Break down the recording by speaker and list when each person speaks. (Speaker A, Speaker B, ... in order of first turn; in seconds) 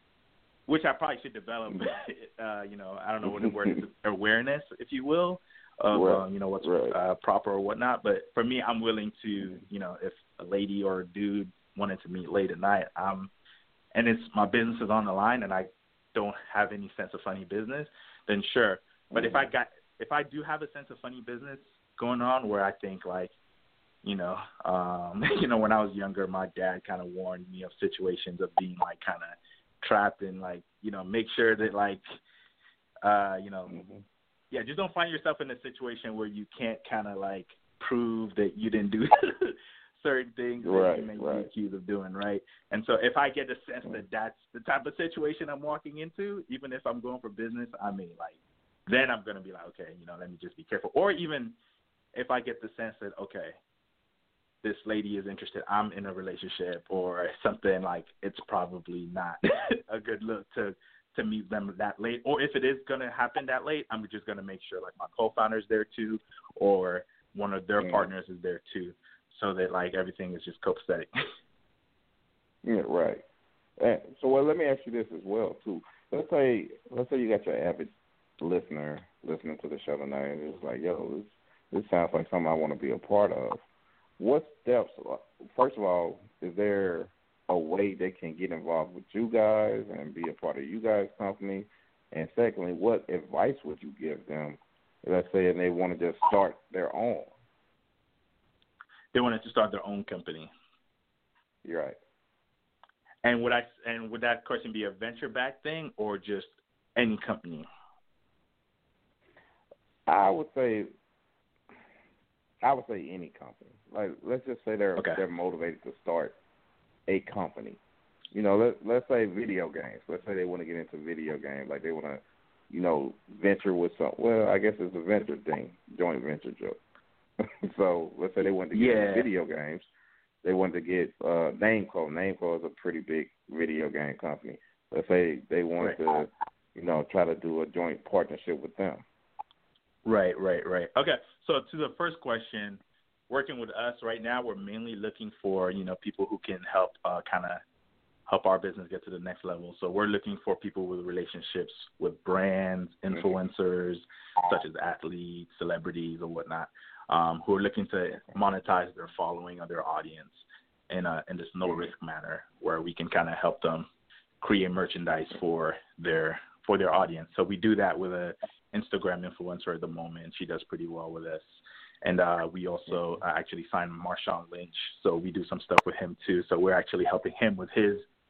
Speaker A: 0.7-13.3, 13.9-23.3, 24.0-32.0, 33.0-33.8, 34.5-51.6, 52.1-53.6, 54.6-71.1, 99.1-100.5, 103.2-107.7, 115.0-115.2, 128.7-129.3, 140.1-147.6, 148.3-163.9, 164.4-178.1
Speaker B: 5.9-7.0, 19.1-19.4, 33.7-34.0, 40.6-41.5, 67.8-68.1, 72.6-73.2, 73.8-83.6, 84.2-97.3, 101.6-102.0, 110.1-110.9, 112.6-116.4, 117.1-117.8, 118.3-126.8, 127.6-129.9, 130.4-139.0